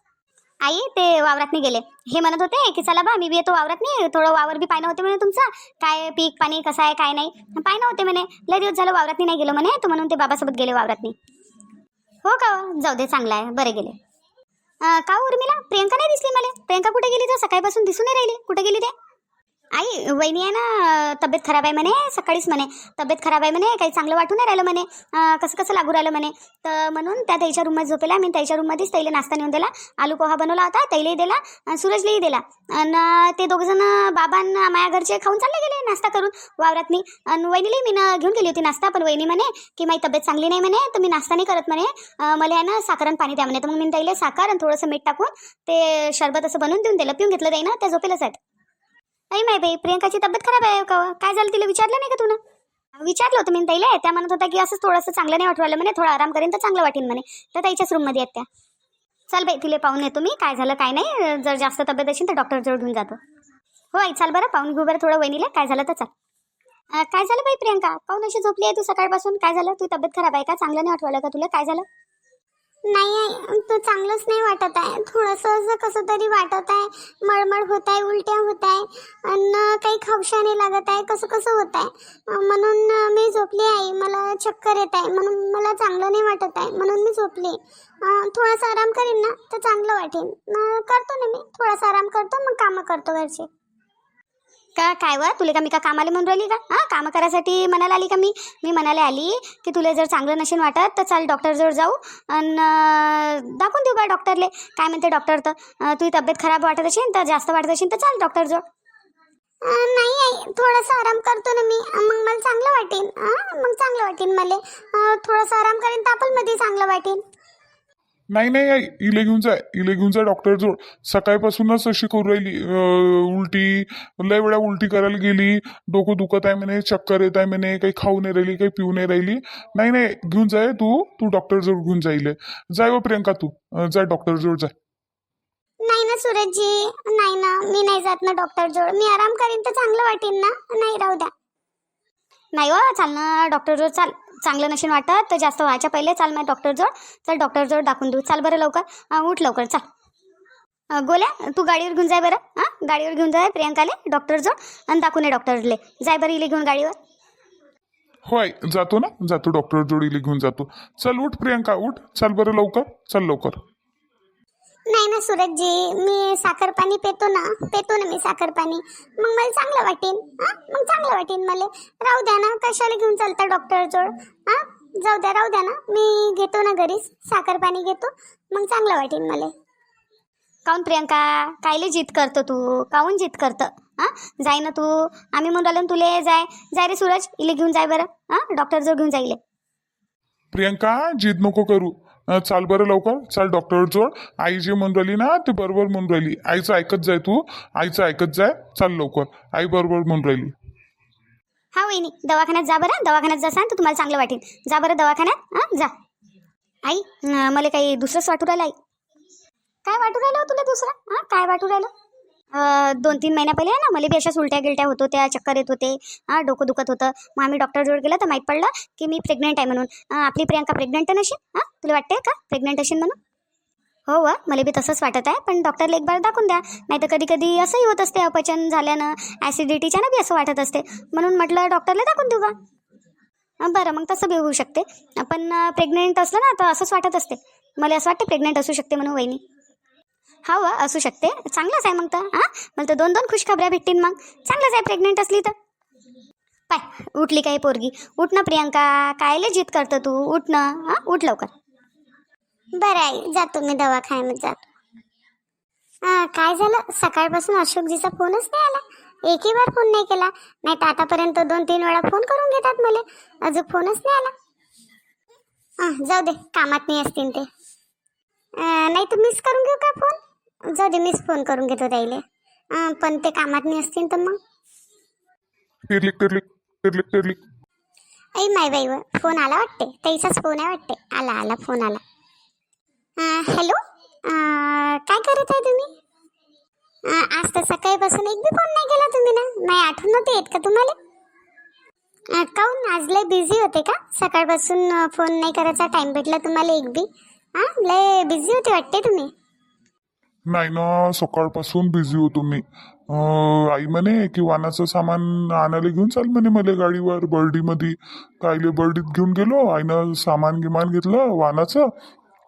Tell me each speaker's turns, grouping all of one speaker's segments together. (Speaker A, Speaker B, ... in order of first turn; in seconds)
Speaker A: 0.6-11.1, 12.2-13.9, 14.8-18.9, 19.7-48.4, 49.3-52.4, 53.0-58.5, 59.3-63.2, 63.9-66.1, 67.0-71.8, 94.8-108.6, 142.5-149.8, 150.9-156.9, 180.7-189.4, 201.7-205.9, 206.8-208.7, 209.8-211.9, 212.5-223.2, 224.1-232.5, 233.6-239.4, 240.4-245.5, 246.7-251.5
Speaker B: 72.9-93.5, 109.7-117.2, 135.8-141.3, 164.9-179.5, 252.8-254.6, 256.0-264.3, 265.8-267.4, 268.6-270.2, 270.7-272.2, 272.7-274.4, 278.4-282.0, 283.2-283.8, 284.3-285.9, 287.1-290.9, 292.4-299.3
Speaker C: 118.3-134.7, 158.2-163.6, 190.5-200.5, 275.9-277.4, 300.5-311.8